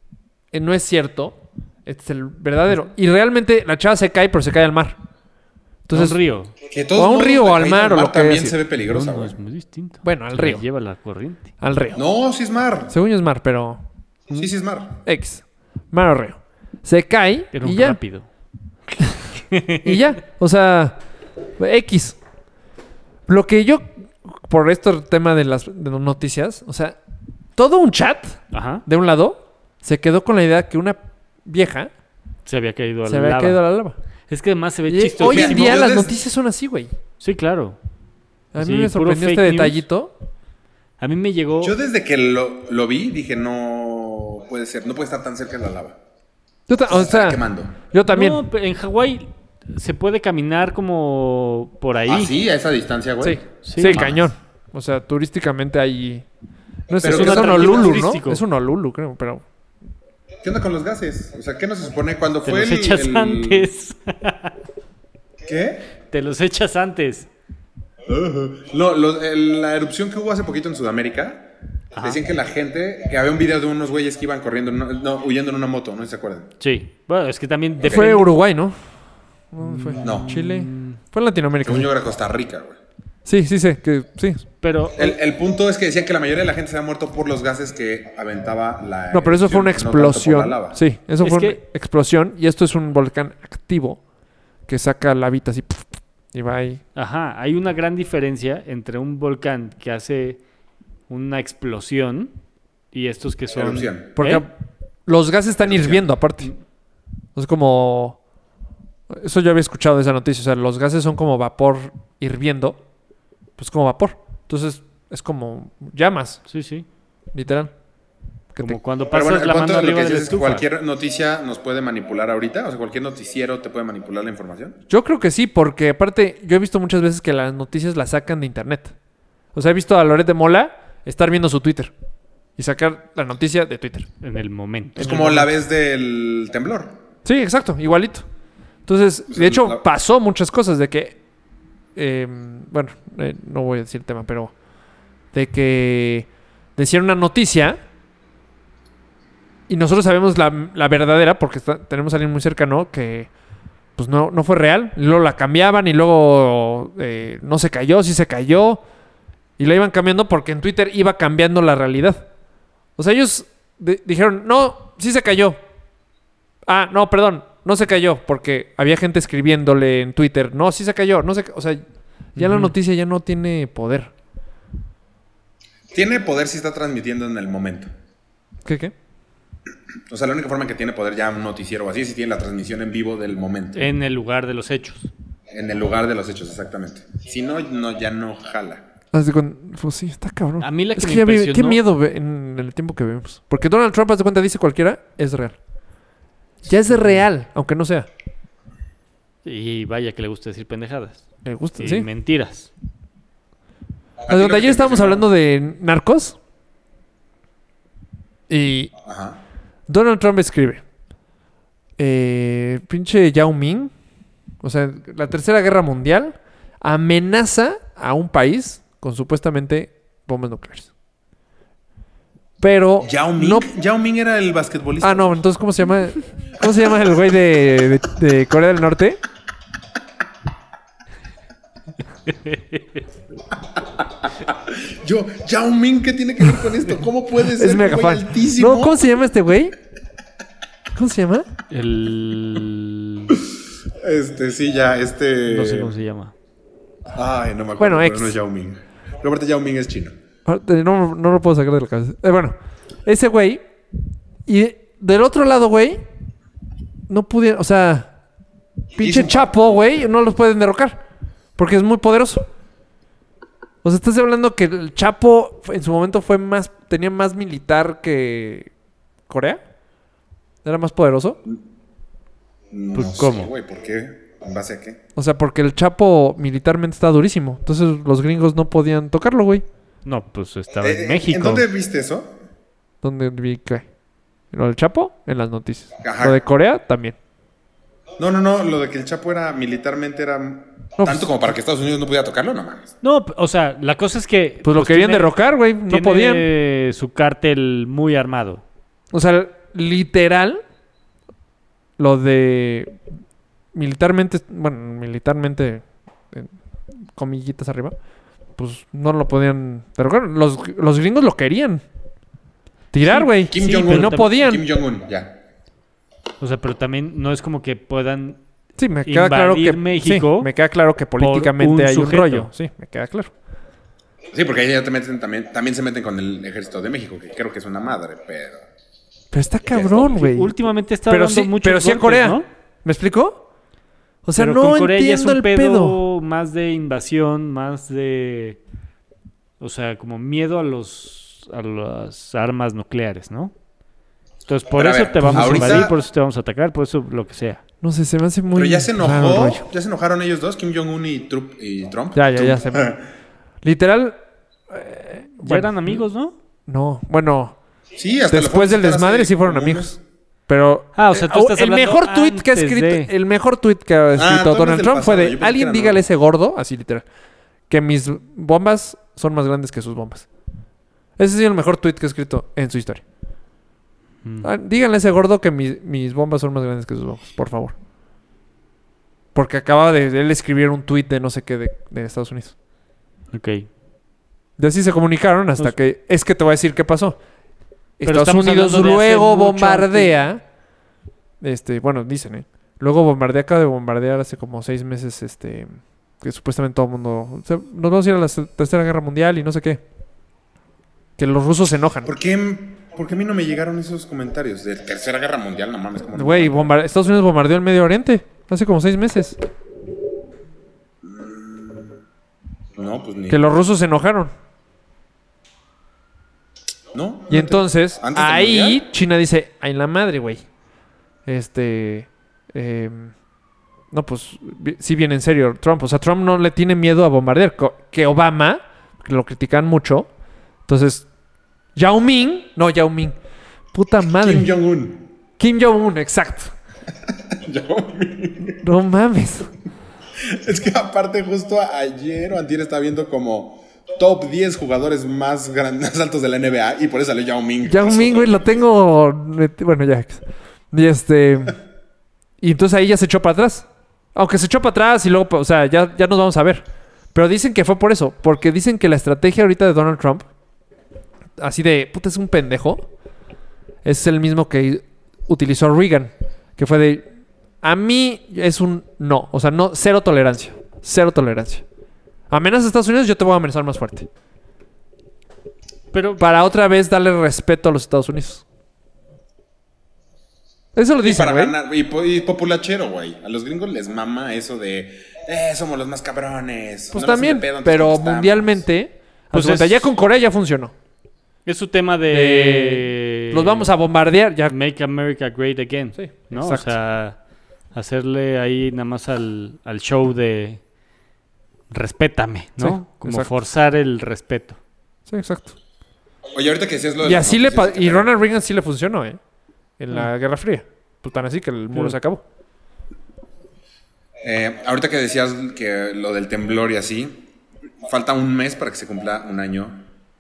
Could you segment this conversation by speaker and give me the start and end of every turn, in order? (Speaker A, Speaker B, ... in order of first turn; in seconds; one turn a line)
Speaker A: 0.5-5.0
Speaker A: 5.9-6.2
Speaker B: 5.9-6.5
Speaker C: 6.7-9.4
Speaker A: 7.0-8.6
Speaker B: 8.9-11.5
Speaker A: 10.0-10.6
Speaker A: 11.6-12.0
Speaker C: 11.9-12.9
Speaker A: 12.9-14.5
Speaker C: 14.3-15.0
Speaker A: 15.1-18.0
Speaker B: 17.5-18.3
Speaker B: 19.4-20.0
Speaker A: 19.8-21.0
Speaker A: 21.6-22.2
Speaker A: 23.3-27.0
Speaker A: 27.6-31.9
Speaker B: 28.5-28.9
Speaker B: 32.5-33.6
Speaker A: 33.1-34.0
Speaker B: 34.3-35.9
Speaker A: 34.9-36.9
Speaker C: 35.2-36.2
Speaker B: 37.2-37.8
Speaker A: 38.5-40.1
Speaker B: 38.6-39.8
Speaker B: 41.0-41.8
Speaker C: 41.6-46.0
Speaker A: 46.7-48.4
Speaker C: 46.9-47.7
Speaker B: 48.1-52.4
Speaker C: 52.1-54.3
Speaker A: 53.2-56.2
Speaker B: 53.6-54.1
Speaker A: 56.9-59.4
Speaker C: 57.0-58.0
Speaker B: 57.0-58.4
Speaker C: 60.4-63.7
Speaker B: 62.5-64.5
Speaker C: 65.5-65.9
Speaker B: 66.1-67.3
Speaker C: 68.1-76.5
Speaker B: 71.9-72.2
Speaker B: 76.6-78.3
Speaker C: 77.8-78.2
Speaker A: 77.9-78.8
Speaker A: 79.5-81.9
Speaker B: 79.6-81.0
Speaker C: 80.0-80.3
Speaker C: 81.6-82.8
Speaker A: 83.3-84.5
Speaker B: 84.6-85.2
Speaker C: 85.0-90.8
Speaker A: 89.1-94.0
Speaker B: 91.2-91.6
Speaker A: 94.7-96.8
Speaker B: 97.0-100.4
Speaker B: 101.1-102.3
Speaker B: 102.9-104.4
Speaker C: 103.5-104.1
Speaker A: 104.2-104.5
Speaker A: 105.1-106.5
Speaker C: 105.6-106.0
Speaker A: 107.4-108.2
Speaker A: 109.1-112.8
Speaker A: 113.6-116.5
Speaker B: 116.5-116.9
Speaker A: 117.3-117.7
Speaker B: 118.6-120.7
Speaker C: 119.1-124.8
Speaker A: 124.9-128.9
Speaker A: 129.5-131.9
Speaker A: 132.6-134.1
Speaker B: 134.2-135.1
Speaker C: 135.0-136.9
Speaker A: 135.0-135.5
Speaker A: 137.2-138.2
Speaker A: 138.9-141.2
Speaker C: 139.3-139.8
Speaker A: 142.0-144.5
Speaker A: 145.3-147.8
Speaker A: 149.7-153.3
Speaker A: 154.0-158.8
Speaker A: 159.6-162.3
Speaker A: 163.0-165.6
Speaker A: 166.7-171.8
Speaker A: 172.3-174.1
Speaker B: 172.4-172.7
Speaker C: 175.9-177.9
Speaker A: 178.7-178.9
Speaker C: 180.1-183.8
Speaker B: 183.8-185.1
Speaker C: 185.5-188.8
Speaker A: 189.1-195.6
Speaker B: 190.6-191.8
Speaker A: 196.7-198.1
Speaker B: 199.4-201.3
Speaker A: 201.4-202.1
Speaker B: 201.8-202.7
Speaker C: 204.2-205.3
Speaker A: 204.3-206.4
Speaker A: 208.5-208.9
Speaker C: 209.0-209.4
Speaker A: 209.9-210.8
Speaker A: 212.0-213.9
Speaker A: 214.6-220.9
Speaker A: 222.6-223.7
Speaker C: 223.0-225.3
Speaker A: 225.0-229.2
Speaker B: 232.3-233.0
Speaker C: 233.8-239.1
Speaker A: 237.6-239.8
Speaker A: 240.9-241.5
Speaker B: 241.7-243.3
Speaker C: 243.3-245.9
Speaker B: 245.5-246.3
Speaker C: 247.1-250.2
Speaker A: 247.8-248.4
Speaker A: 250.5-253.6
Speaker A: 254.5-256.0
Speaker A: 257.1-258.1
Speaker A: 258.9-261.0
Speaker C: 259.0-259.9
Speaker A: 261.6-262.5
Speaker A: 263.8-268.7
Speaker A: 269.3-269.6
Speaker A: 270.6-271.4
Speaker C: 272.7-275.0
Speaker B: 272.9-273.5
Speaker A: 275.2-279.6
Speaker B: 280.1-281.7
Speaker C: 280.8-282.4
Speaker A: 283.0-283.9
Speaker A: 284.5-287.2
Speaker C: 286.0-286.4
Speaker C: 288.2-292.9
Speaker A: 291.0-291.4
Speaker B: 293.0-295.4
Speaker A: 294.6-296.5
Speaker B: 295.9-298.6
Speaker A: 299.1-300.6
Speaker A: 302.0-303.0
Speaker A: 303.7-306.6
Speaker A: 307.1-307.9
Speaker A: 308.6-311.8
Speaker A: 312.9-314.6
Speaker B: 313.0-314.3
Speaker C: 313.4-315.4
Speaker B: 316.4-318.4
Speaker A: 318.8-323.3
Speaker B: 319.1-320.5
Speaker B: 321.2-322.5
Speaker C: 324.3-328.7
Speaker A: 329.3-330.6
Speaker C: 329.7-330.2
Speaker B: 330.1-332.5
Speaker A: 331.1-333.4
Speaker A: 334.2-336.0
Speaker B: 334.4-338.6
Speaker B: 339.6-343.5
Speaker B: 344.5-347.6
Speaker C: 344.7-346.0
Speaker A: 345.2-345.9
Speaker A: 347.8-349.7
Speaker C: 348.5-353.1
Speaker A: 352.1-353.0
Speaker A: 353.6-354.2
Speaker A: 354.7-356.0
Speaker B: 355.4-356.4
Speaker A: 356.7-357.6
Speaker C: 358.0-360.0
Speaker A: 358.3-367.0
Speaker B: 361.0-363.1
Speaker C: 364.2-366.0
Speaker A: 367.7-370.3
Speaker A: 371.2-373.0
Speaker B: 374.2-374.5
Speaker A: 374.4-377.8
Speaker A: 379.4-382.6
Speaker B: 383.3-383.7
Speaker A: 384.6-387.2
Speaker A: 388.0-390.4
Speaker B: 388.1-390.1
Speaker A: 391.4-399.8
Speaker A: 401.2-402.1
Speaker C: 402.1-406.7
Speaker A: 406.1-409.4
Speaker C: 411.0-412.0
Speaker C: 412.8-413.4
Speaker A: 413.3-414.3
Speaker C: 416.9-418.8
Speaker A: 417.3-420.5
Speaker A: 421.3-423.1
Speaker A: 423.9-430.1
Speaker A: 430.7-431.1
Speaker A: 431.8-433.2
Speaker A: 433.7-434.5
Speaker C: 434.1-435.1
Speaker A: 435.4-436.5
Speaker C: 437.1-438.6
Speaker A: 438.6-439.5
Speaker C: 440.2-448.6
Speaker A: 447.7-451.6
Speaker A: 452.4-460.3
Speaker A: 461.4-462.9
Speaker A: 463.8-467.1
Speaker A: 467.6-471.6
Speaker A: 472.3-474.1
Speaker B: 475.9-476.2
Speaker A: 476.2-478.4
Speaker A: 480.8-481.6
Speaker C: 481.0-488.6
Speaker A: 486.9-490.7
Speaker B: 489.3-489.9
Speaker B: 491.4-493.7
Speaker A: 492.1-494.5
Speaker B: 494.5-497.2
Speaker A: 496.0-496.7
Speaker B: 497.7-500.6
Speaker B: 501.7-504.6
Speaker A: 502.6-503.3
Speaker A: 505.1-505.6
Speaker C: 506.3-508.1
Speaker A: 507.0-509.2
Speaker A: 509.8-512.2
Speaker C: 514.2-517.2
Speaker C: 517.8-519.9